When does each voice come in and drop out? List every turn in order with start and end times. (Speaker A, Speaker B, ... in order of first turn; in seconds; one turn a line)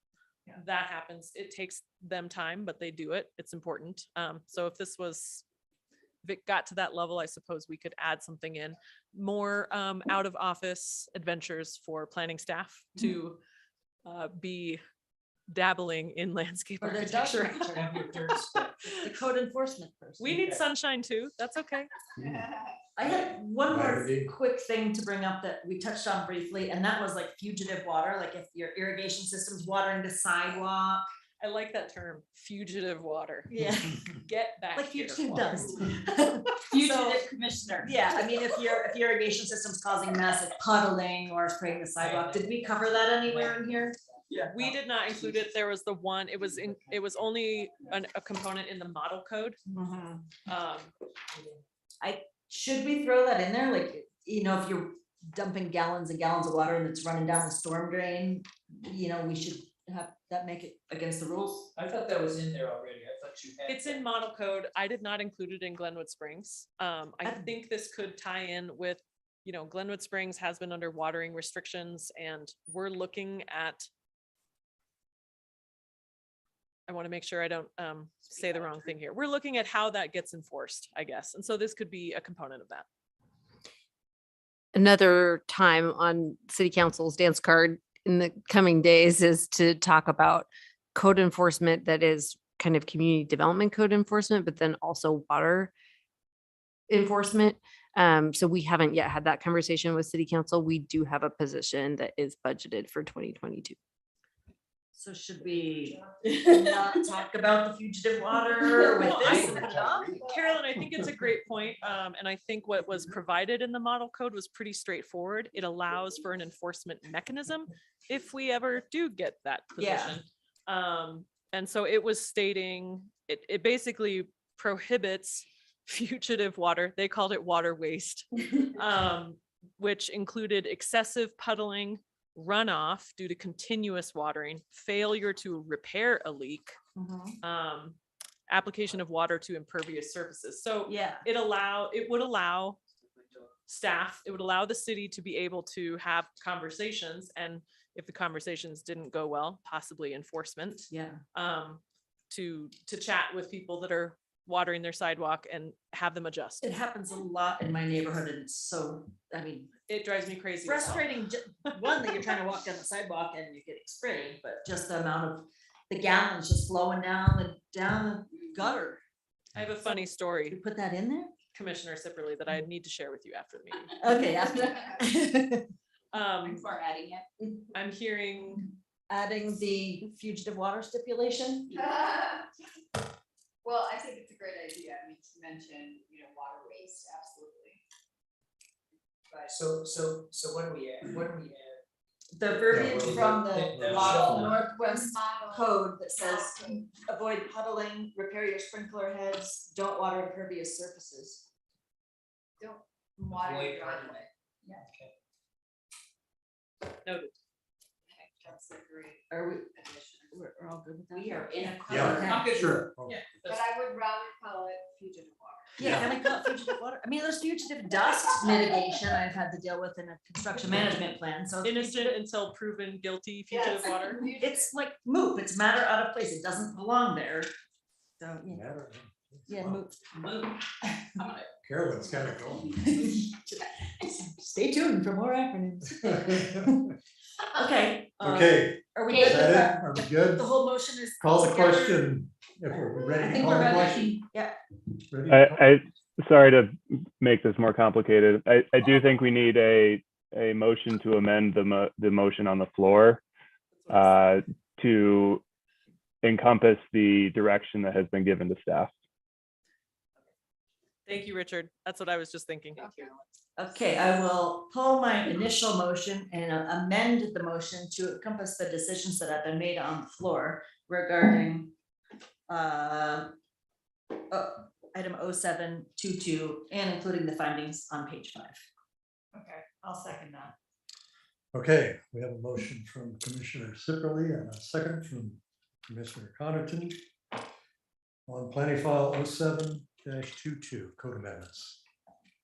Speaker A: 0.5-5.5
Speaker A: 6.2-13.4
Speaker A: 14.0-14.8
Speaker A: 15.5-17.7
Speaker B: 16.8-18.0
Speaker C: 17.7-18.8
Speaker B: 18.9-20.3
Speaker A: 20.2-21.9
Speaker C: 20.3-20.6
Speaker D: 22.2-22.5
Speaker E: 22.3-22.6
Speaker B: 22.9-31.1
Speaker D: 23.7-24.3
Speaker A: 31.4-33.5
Speaker B: 33.5-34.0
Speaker A: 34.1-35.8
Speaker B: 34.7-37.3
Speaker F: 36.7-37.9
Speaker B: 37.8-44.0
Speaker C: 42.0-43.7
Speaker C: 44.3-45.3
Speaker A: 44.5-49.6
Speaker B: 49.7-50.2
Speaker A: 50.5-50.9
Speaker C: 51.3-51.6
Speaker B: 52.0-61.7
Speaker C: 61.7-64.0
Speaker A: 63.7-73.9
Speaker B: 67.2-67.5
Speaker A: 76.9-82.9
Speaker F: 84.8-95.7
Speaker F: 96.9-103.8
Speaker B: 105.0-110.2
Speaker A: 109.0-136.8
Speaker D: 109.2-110.2
Speaker B: 119.8-120.2
Speaker B: 137.0-137.4
Speaker A: 137.4-138.0
Speaker A: 138.5-142.8
Speaker B: 140.8-141.2
Speaker C: 143.2-143.5
Speaker A: 143.7-156.6
Speaker B: 150.9-151.2
Speaker B: 156.6-159.7
Speaker A: 159.9-161.1
Speaker B: 160.6-169.0
Speaker A: 169.6-170.6
Speaker B: 170.5-171.3
Speaker A: 171.5-174.0
Speaker B: 174.0-175.7
Speaker E: 174.1-175.0
Speaker A: 176.1-176.7
Speaker E: 176.4-177.3
Speaker A: 177.7-178.7
Speaker B: 179.1-181.9
Speaker E: 181.7-182.5
Speaker E: 183.6-187.8
Speaker C: 189.3-191.8
Speaker B: 192.3-201.5
Speaker D: 192.7-194.6
Speaker C: 192.7-194.7
Speaker E: 194.0-196.8
Speaker E: 202.6-204.8
Speaker C: 203.3-204.3
Speaker C: 204.8-205.1
Speaker A: 207.0-207.3
Speaker E: 208.1-210.4
Speaker B: 209.3-212.8
Speaker E: 211.1-212.2
Speaker D: 211.9-213.2
Speaker C: 212.2-213.6
Speaker E: 213.5-216.2
Speaker B: 215.8-222.1
Speaker D: 215.8-216.1
Speaker E: 218.0-219.0
Speaker A: 221.6-224.2
Speaker E: 223.5-224.7
Speaker B: 224.2-227.5
Speaker B: 228.2-228.7
Speaker D: 228.5-229.8
Speaker B: 229.5-231.1
Speaker D: 231.6-233.2
Speaker B: 232.8-236.8
Speaker D: 236.0-236.7
Speaker B: 237.5-239.8
Speaker D: 238.2-240.5
Speaker E: 239.1-239.7
Speaker B: 240.4-240.8
Speaker E: 240.4-242.0
Speaker D: 241.2-244.2
Speaker E: 243.0-244.1
Speaker B: 243.2-244.6
Speaker D: 245.1-245.8
Speaker G: 245.3-253.2
Speaker A: 253.7-254.3
Speaker G: 253.9-255.4
Speaker G: 256.2-258.9
Speaker A: 261.1-263.1
Speaker E: 262.8-263.2
Speaker B: 263.6-271.7
Speaker B: 272.5-273.3
Speaker B: 274.3-278.6
Speaker D: 281.5-287.0
Speaker D: 288.3-291.8